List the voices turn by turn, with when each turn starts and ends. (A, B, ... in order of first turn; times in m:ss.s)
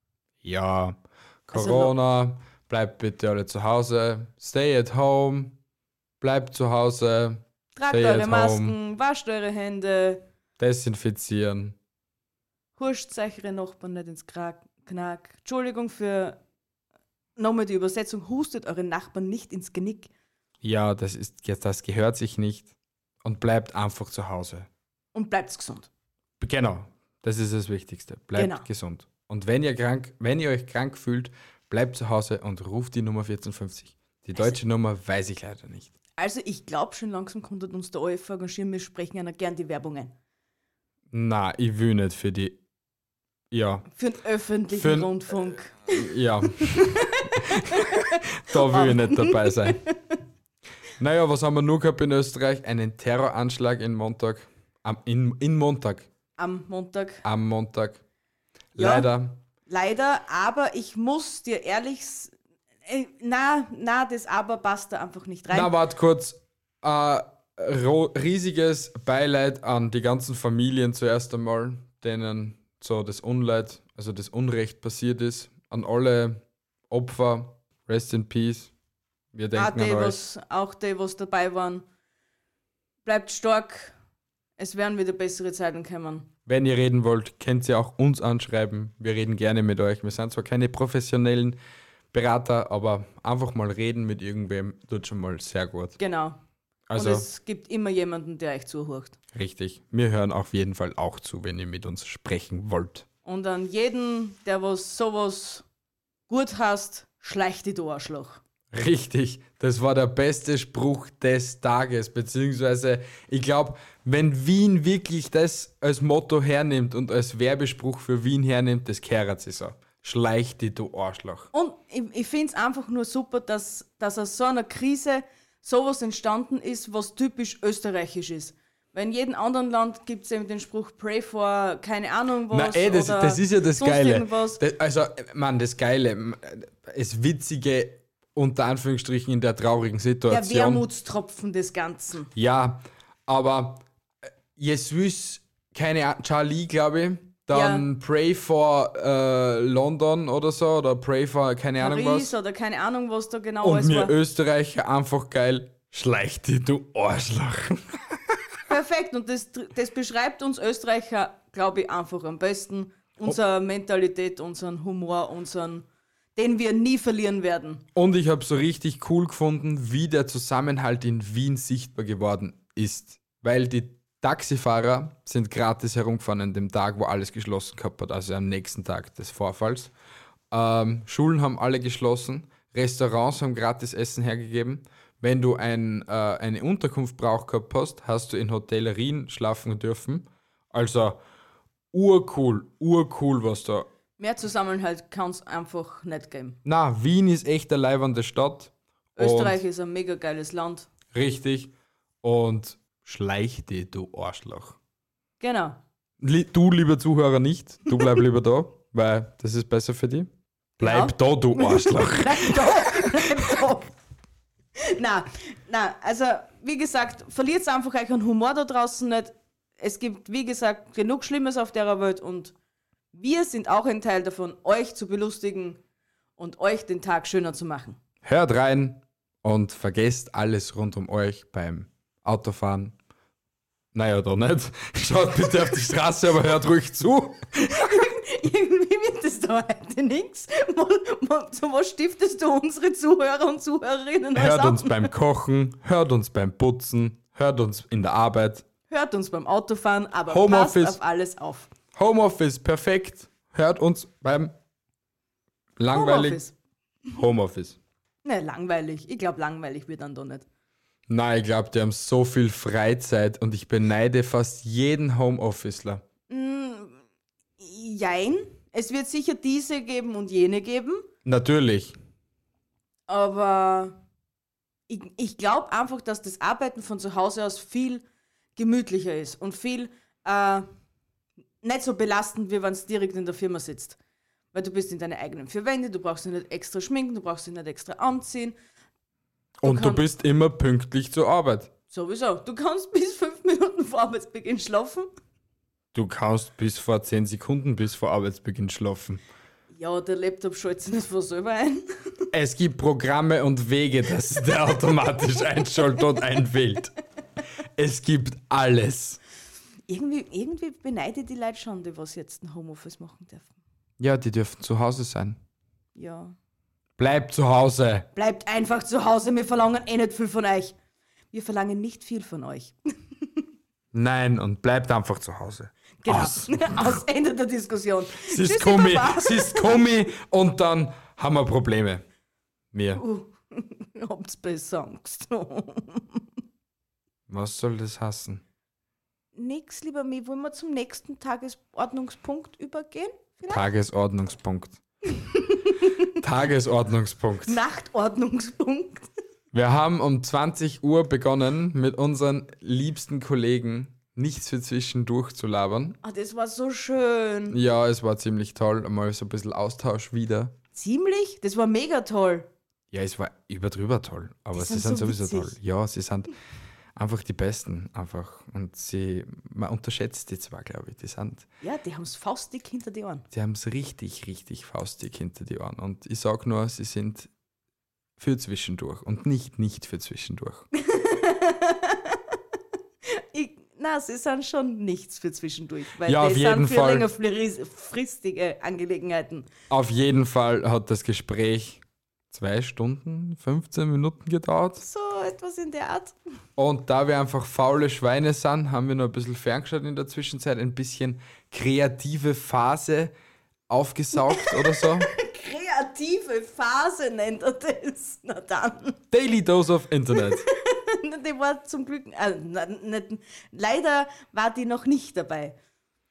0:00.4-0:05.5 A
0:01.5-0:01.9 B
0:06.2-0:08.8 A
0:07.8-0:10.2 B
0:10.6-0:11.8 A
0:12.8-0:16.4 B
0:17.4-0:20.1 B
0:20.6-0:22.7 A
0:23.2-0:24.7 A
0:25.1-0:25.9 B
0:26.4-0:35.9 A
0:28.4-0:28.6 B
0:36.2-0:40.1 B
0:41.1-0:42.6 A
0:43.5-0:43.9 A
0:43.9-0:50.2 B
0:44.7-0:45.2 A
0:45.9-0:49.8 A
0:51.0-0:56.1 A
0:56.4-0:57.2 B
0:57.2-0:58.0 A
0:58.7-0:59.4 A
0:58.8-0:59.1 B
0:59.7-1:02.3 B
1:02.9-1:05.7 B
1:05.5-1:18.7 A
1:19.3-1:20.2 A
1:19.5-1:21.8 B
1:23.0-1:23.9 B
1:24.6-1:26.3 B
1:26.5-1:31.6 A
1:32.1-1:36.0 A
1:36.0-1:36.4 B
1:36.9-1:37.2 A
1:36.9-1:39.2 B
1:39.3-1:43.0 A
1:43.2-1:45.6 B
1:46.3-1:48.4 B
1:48.7-2:01.5 A
2:01.5-2:14.6 B
2:12.5-2:20.8 A
2:20.3-2:22.3 B
2:22.3-2:23.8 A
2:24.6-2:32.3 A
2:27.5-2:27.8 B
2:31.8-2:34.1 B
2:33.6-2:38.4 A
2:38.7-2:47.8 B
2:47.9-2:59.9 A
3:00.5-3:11.2 A
3:11.9-3:13.9 A
3:14.2-3:16.6 B
3:16.6-3:19.6 A
3:19.2-3:20.9 B
3:21.1-3:24.8 A
3:25.4-3:25.8 B
3:26.2-3:30.3 A
3:30.8-3:33.9 B
3:30.8-3:33.5 A
3:34.8-3:42.5 B
3:43.1-3:45.8 B
3:46.4-3:48.0 B
3:48.2-3:52.9 A
3:53.9-3:58.0 A
3:57.7-4:05.1 B
4:04.3-4:08.6 A
4:08.9-4:11.7 B
4:10.3-4:11.0 A
4:11.9-4:14.5 A
4:15.8-4:16.4 A
4:15.9-4:16.5 B
4:17.1-4:17.8 A
4:18.2-4:20.4 B
4:21.1-4:26.0 A
4:26.3-4:27.0 B
4:27.6-4:31.1 B
4:31.2-4:32.0 A
4:33.1-4:34.0 B
4:34.9-4:38.0 B
4:38.6-4:40.7 B
4:41.6-4:44.0 B
4:44.5-4:48.6 B
4:49.6-4:51.7 A
4:49.6-4:50.0 B
4:51.9-4:55.1 B
4:55.9-4:59.2 A
4:59.7-5:02.2 B
5:02.3-5:06.9 A
5:07.8-5:09.2 A
5:09.9-5:13.5 B
5:14.0-5:15.4 A
5:15.9-5:16.4 B
5:17.0-5:18.1 A
5:18.1-5:20.7 B
5:21.3-5:22.7 B
5:23.9-5:27.0 A
5:26.0-5:29.9 B
5:28.2-5:32.0 A
5:32.7-5:33.0 A
5:32.9-5:36.2 B
5:37.3-5:38.4 A
5:39.3-5:43.6 B
5:43.5-5:44.8 A
5:45.2-5:45.9 B
5:46.2-5:47.6 A
5:47.4-5:49.1 B
5:49.5-5:56.0 A
5:56.0-5:57.6 B
5:57.5-6:00.5 A
6:00.7-6:02.5 B
6:02.9-6:06.3 A
6:04.5-6:05.5 B
6:06.9-6:11.5 A
6:11.6-6:13.2 B
6:13.3-6:17.3 A
6:18.2-6:20.6 A
6:20.8-6:22.2 B
6:23.1-6:29.5 B
6:26.0-6:27.1 A
6:29.7-6:34.8 A
6:34.8-6:36.2 B
6:36.6-6:43.1 A
6:43.7-6:45.1 A
6:44.3-6:49.0 B
6:49.1-6:50.4 A
6:50.2-6:55.6 B